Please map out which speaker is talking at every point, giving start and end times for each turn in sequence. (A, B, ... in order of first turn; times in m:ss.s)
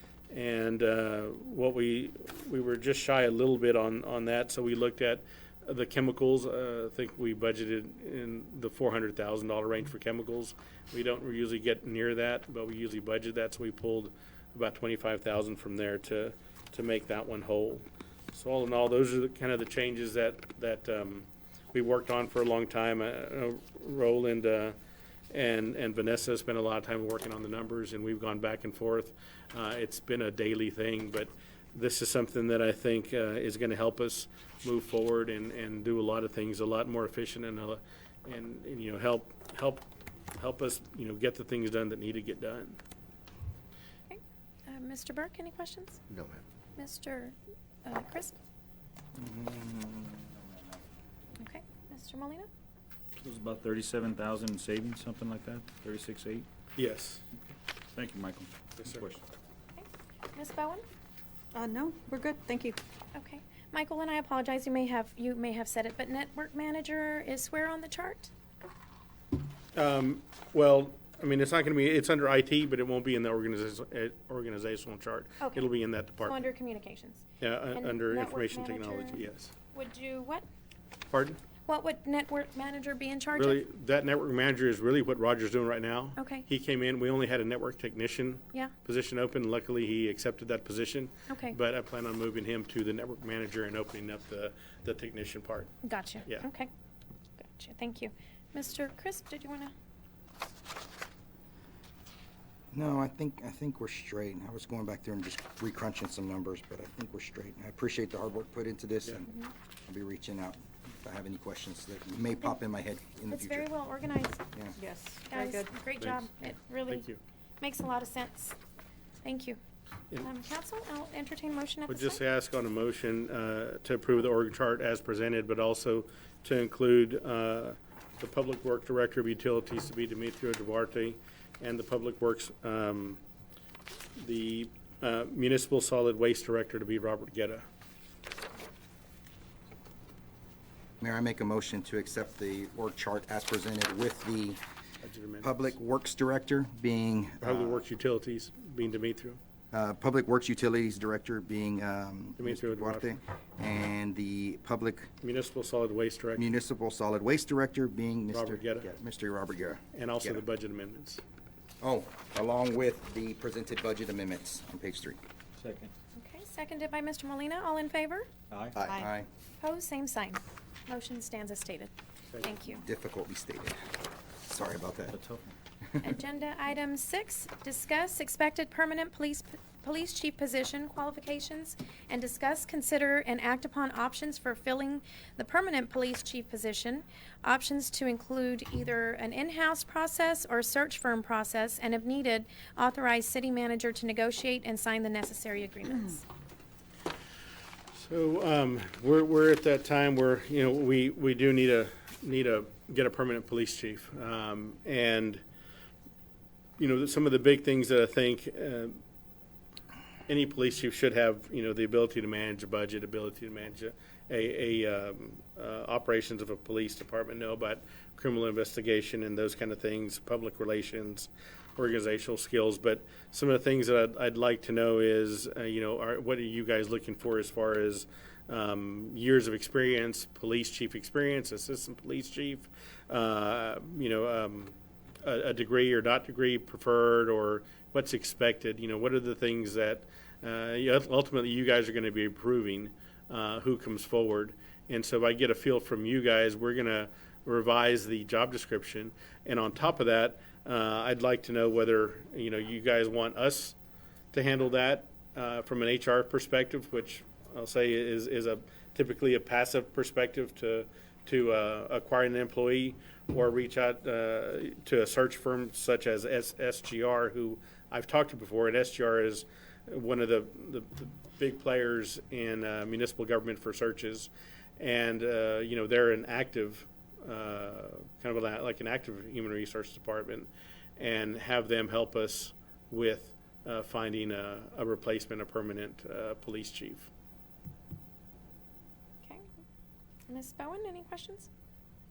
0:00.3-0:24.8 A
0:25.3-0:42.8 A
0:44.1-0:46.0 B
0:46.8-0:48.4 B
0:49.1-0:50.8 C
0:51.4-0:52.5 B
0:53.2-0:56.5 D
0:56.8-0:57.2 A
0:57.9-0:59.2 D
0:58.8-0:59.1 A
0:59.7-1:00.8 B
1:01.5-1:02.8 E
1:03.1-1:08.3 B
1:09.7-1:16.4 A
1:15.4-1:15.7 B
1:16.2-1:20.4 B
1:17.4-1:19.5 A
1:21.1-1:21.4 A
1:21.7-1:23.6 B
1:23.4-1:35.7 A
1:26.2-1:26.5 B
1:31.3-1:31.6 B
1:35.8-1:36.7 B
1:37.4-1:39.7 B
1:42.7-1:49.3 C
1:49.9-1:53.7 C
1:53.3-1:54.4 B
1:54.8-1:55.7 E
1:55.3-1:57.0 B
1:56.0-1:57.2 A
1:57.6-1:58.6 B
1:59.2-1:59.6 B
2:00.2-2:02.2 B
2:01.9-2:13.2 A
2:14.2-2:17.6 A
2:21.0-2:24.6 C
2:25.0-2:25.7 A
2:25.4-2:27.8 C
2:27.4-2:29.4 A
2:29.7-2:35.1 C
2:32.4-2:33.2 A
2:35.2-2:36.4 A
2:36.4-2:40.4 C
2:38.3-2:38.9 A
2:39.9-2:41.2 A
2:41.8-2:45.2 C
2:45.6-2:45.9 D
2:46.2-2:48.3 B
2:48.5-2:48.8 D
2:48.7-2:49.3 C
2:48.8-2:49.1 E
2:49.6-2:52.8 B
2:52.8-2:53.8 C
2:54.4-2:55.1 C
2:55.1-2:55.5 D
2:55.8-2:56.1 C
2:56.0-3:16.2 B
3:17.9-3:25.4 A
3:26.8-3:29.0 A
3:30.3-4:13.7 A
4:14.3-4:47.1 A
4:50.3-4:51.5 B